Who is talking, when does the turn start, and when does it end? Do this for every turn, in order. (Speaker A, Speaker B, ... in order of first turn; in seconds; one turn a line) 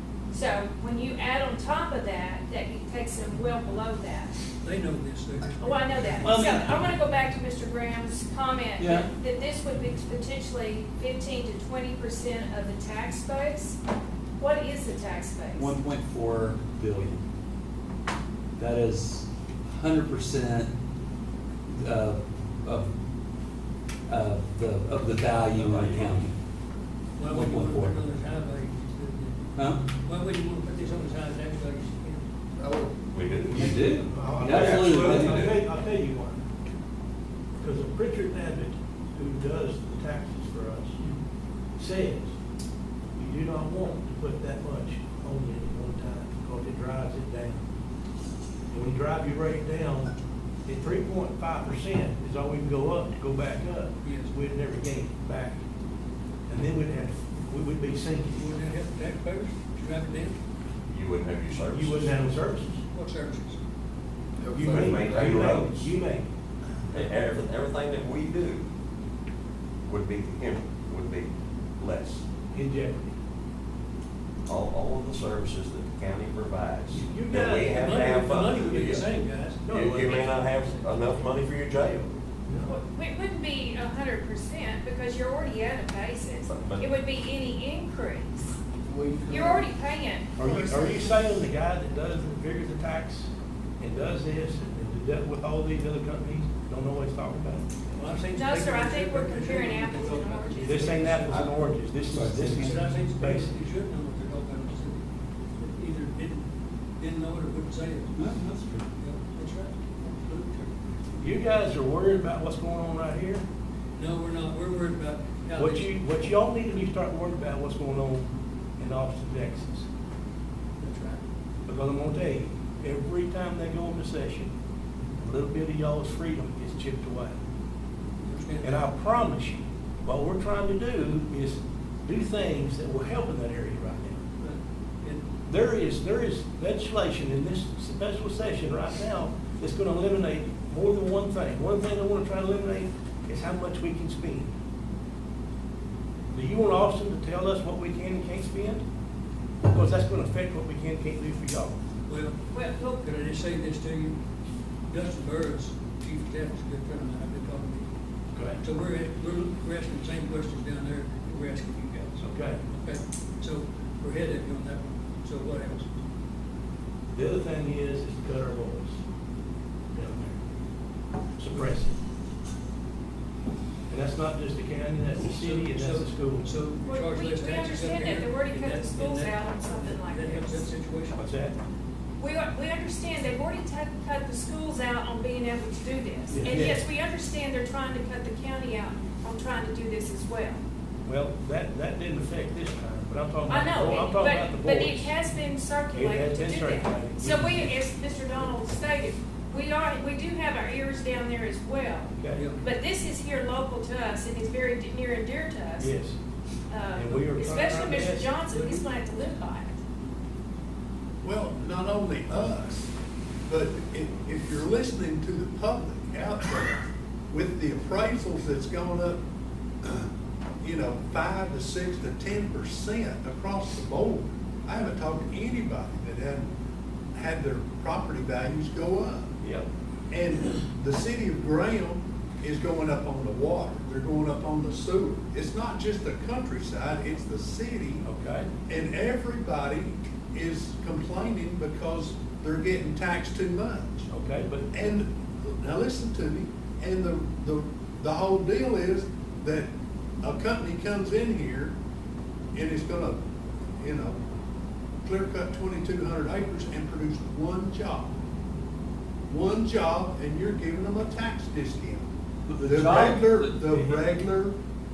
Speaker A: 0.3-4.4
Speaker B: 4.6-6.4
Speaker A: 5.6-13.8
Speaker C: 6.2-7.0
Speaker C: 8.8-9.1
Speaker A: 14.4-15.7
Speaker C: 15.6-17.2
Speaker C: 18.6-20.7
Speaker C: 21.7-22.9
Speaker C: 24.1-26.3
Speaker B: 27.1-29.5
Speaker C: 27.2-28.0
Speaker C: 29.6-29.8
Speaker B: 30.0-32.2
Speaker D: 32.6-33.0
Speaker E: 33.1-33.9
Speaker C: 33.5-35.5
Speaker F: 33.9-36.4
Speaker G: 34.4-35.2
Speaker E: 34.7-35.6
Speaker F: 37.6-41.0
Speaker F: 41.8-42.3
Speaker F: 43.1-47.6
Speaker F: 48.7-50.1
Speaker F: 50.6-55.6
Speaker B: 54.0-54.3
Speaker F: 56.5-58.5
Speaker B: 58.3-60.4
Speaker E: 60.9-62.2
Speaker F: 61.6-62.8
Speaker B: 62.9-63.6
Speaker D: 64.4-65.2
Speaker F: 64.5-66.3
Speaker E: 64.7-65.9
Speaker E: 66.9-68.6
Speaker E: 69.8-72.2
Speaker F: 72.5-73.2
Speaker E: 74.5-79.1
Speaker F: 76.9-79.1
Speaker B: 77.8-80.9
Speaker F: 79.6-80.4
Speaker E: 79.7-82.1
Speaker F: 82.5-82.7
Speaker A: 82.7-88.5
Speaker E: 86.4-86.9
Speaker D: 88.8-89.7
Speaker A: 89.2-91.2
Speaker F: 90.4-97.7
Speaker B: 97.9-101.4
Speaker A: 98.3-101.2
Speaker F: 100.6-103.5
Speaker C: 102.0-102.9
Speaker B: 102.4-105.0
Speaker B: 105.6-106.5
Speaker B: 107.0-108.2
Speaker C: 108.1-108.9
Speaker B: 109.0-110.7
Speaker F: 111.2-113.4
Speaker B: 114.0-116.0
Speaker F: 115.5-119.9
Speaker B: 120.8-121.2
Speaker F: 121.7-124.5
Speaker F: 125.2-127.4
Speaker B: 128.2-128.8
Speaker F: 128.6-134.2
Speaker B: 134.4-135.2
Speaker F: 135.5-144.5
Speaker F: 146.3-148.8
Speaker F: 149.6-151.8
Speaker B: 152.1-154.2
Speaker A: 152.5-153.0
Speaker B: 154.9-157.9
Speaker F: 158.3-158.6
Speaker B: 158.5-165.9
Speaker F: 162.2-162.6
Speaker F: 167.1-169.0
Speaker F: 169.9-170.4
Speaker F: 171.4-172.0
Speaker B: 171.5-171.7
Speaker F: 173.9-176.5
Speaker B: 175.2-181.2
Speaker A: 176.8-180.7
Speaker F: 181.1-181.6
Speaker A: 182.2-190.6
Speaker F: 186.3-186.8
Speaker F: 191.0-195.1
Speaker A: 193.5-205.9
Speaker F: 195.9-197.8
Speaker F: 202.2-202.4
Speaker B: 202.3-202.6
Speaker F: 205.8-206.2
Speaker A: 206.7-209.7
Speaker F: 206.9-208.4
Speaker G: 211.2-212.9
Speaker G: 213.5-219.2
Speaker G: 219.8-220.1
Speaker G: 220.6-226.5
Speaker G: 227.1-229.3
Speaker F: 229.4-229.7
Speaker G: 230.1-238.1
Speaker F: 238.0-238.5
Speaker G: 238.7-244.1
Speaker F: 244.1-244.7
Speaker G: 244.7-249.7
Speaker G: 250.2-251.7
Speaker G: 252.5-253.2
Speaker G: 253.8-254.2
Speaker G: 255.0-258.1
Speaker G: 259.3-262.1
Speaker C: 262.5-264.1
Speaker G: 262.6-264.5